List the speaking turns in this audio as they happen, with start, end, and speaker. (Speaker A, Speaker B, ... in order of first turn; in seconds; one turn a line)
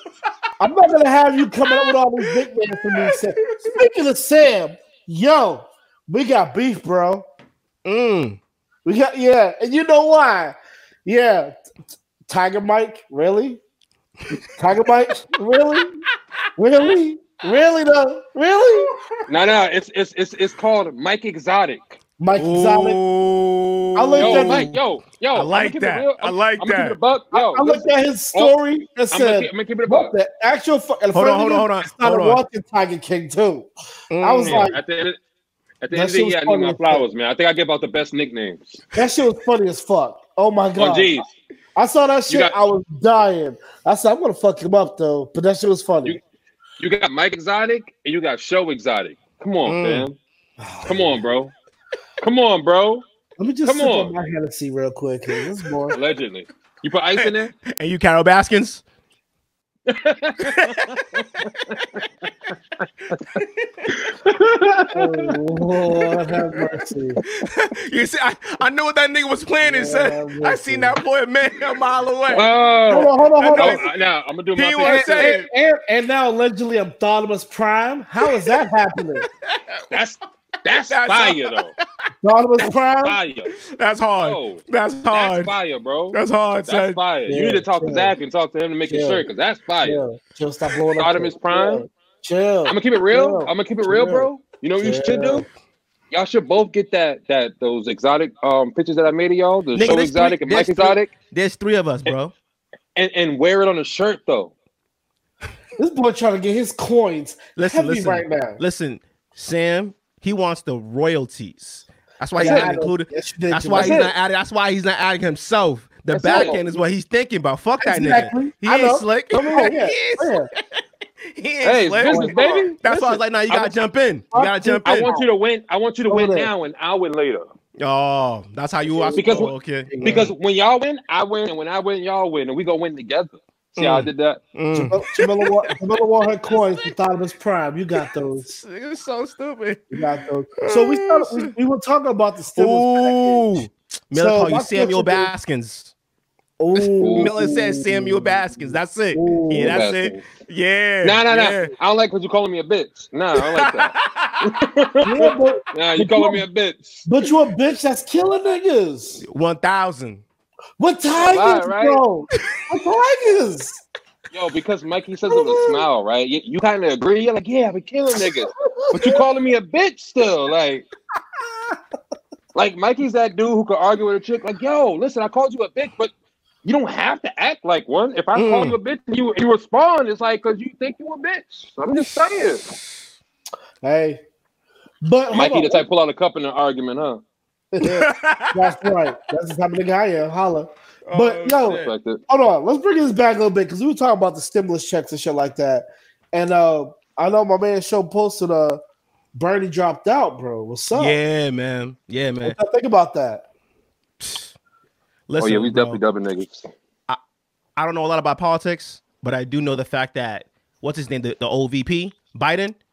Speaker A: 0.6-7.2
Speaker B: 2.9-3.7
Speaker B: 7.8-8.4
Speaker A: 8.8-11.5
Speaker A: 12.3-13.6
Speaker A: 14.6-16.0
Speaker A: 16.6-18.9
Speaker C: 19.3-22.0
Speaker A: 22.2-23.0
Speaker B: 22.3-24.8
Speaker A: 23.9-24.7
Speaker C: 24.2-28.5
Speaker B: 25.3-27.0
Speaker A: 27.3-33.7
Speaker C: 29.1-30.1
Speaker B: 31.1-32.4
Speaker B: 34.1-34.7
Speaker A: 34.2-34.8
Speaker C: 34.4-35.2
Speaker C: 35.8-38.8
Speaker A: 35.9-37.0
Speaker A: 38.9-41.2
Speaker C: 40.8-41.3
Speaker A: 41.8-46.2
Speaker C: 42.3-42.5
Speaker C: 46.8-50.2
Speaker B: 49.6-50.1
Speaker A: 50.6-51.2
Speaker C: 50.9-51.5
Speaker C: 52.2-53.0
Speaker A: 53.4-56.0
Speaker C: 53.6-54.1
Speaker C: 55.9-57.5
Speaker B: 57.2-58.8
Speaker C: 59.9-61.8
Speaker B: 60.4-60.9
Speaker C: 64.0-65.3
Speaker A: 64.9-67.2
Speaker B: 67.4-72.5
Speaker A: 69.6-71.0
Speaker C: 72.3-75.3
Speaker A: 72.9-73.8
Speaker B: 73.4-73.9
Speaker B: 74.5-75.5
Speaker A: 74.8-79.2
Speaker B: 78.2-78.6
Speaker B: 79.4-79.8
Speaker C: 79.9-81.7
Speaker B: 80.9-81.7
Speaker A: 82.2-83.2
Speaker C: 83.0-83.5
Speaker B: 83.6-85.5
Speaker C: 84.2-90.0
Speaker B: 86.1-87.0
Speaker A: 87.3-88.1
Speaker A: 88.9-89.2
Speaker A: 89.8-95.5
Speaker C: 91.0-91.8
Speaker C: 92.7-95.5
Speaker C: 96.1-101.1
Speaker B: 99.7-102.3
Speaker C: 103.0-104.5
Speaker A: 105.8-108.6
Speaker B: 107.5-125.1
Speaker A: 112.3-114.0
Speaker C: 112.4-112.7
Speaker C: 113.7-114.1
Speaker C: 116.1-116.6
Speaker A: 116.2-116.6
Speaker A: 117.8-120.5
Speaker C: 121.6-123.7
Speaker A: 122.0-122.7
Speaker A: 124.3-125.2
Speaker C: 124.8-127.5
Speaker A: 126.1-126.5
Speaker B: 127.8-130.3
Speaker A: 128.9-130.3
Speaker C: 129.1-134.4
Speaker B: 133.8-135.8
Speaker A: 134.7-138.5
Speaker B: 136.6-136.8
Speaker B: 138.0-140.0
Speaker A: 139.9-143.5
Speaker B: 140.6-141.5
Speaker B: 142.6-145.9
Speaker A: 144.1-145.3
Speaker A: 146.6-149.8
Speaker B: 146.8-151.7
Speaker C: 147.0-147.4
Speaker C: 149.6-150.2
Speaker C: 151.0-153.9
Speaker B: 153.3-154.5
Speaker C: 154.4-157.0
Speaker A: 155.0-156.4
Speaker A: 157.1-159.2
Speaker B: 159.2-160.2
Speaker A: 160.8-163.8
Speaker C: 161.1-162.0
Speaker C: 164.3-170.9
Speaker A: 165.3-165.8
Speaker A: 168.8-169.2
Speaker C: 172.5-176.1
Speaker C: 176.6-182.6
Speaker B: 178.3-178.8
Speaker A: 183.8-184.2
Speaker A: 185.0-185.8
Speaker C: 185.3-187.2
Speaker A: 187.7-198.8
Speaker B: 187.8-188.9
Speaker B: 191.1-191.9
Speaker C: 191.7-192.2
Speaker A: 199.3-201.2
Speaker B: 200.9-202.6
Speaker A: 202.4-203.4
Speaker B: 204.2-204.5
Speaker B: 205.3-206.0
Speaker C: 205.4-206.7
Speaker B: 207.8-212.8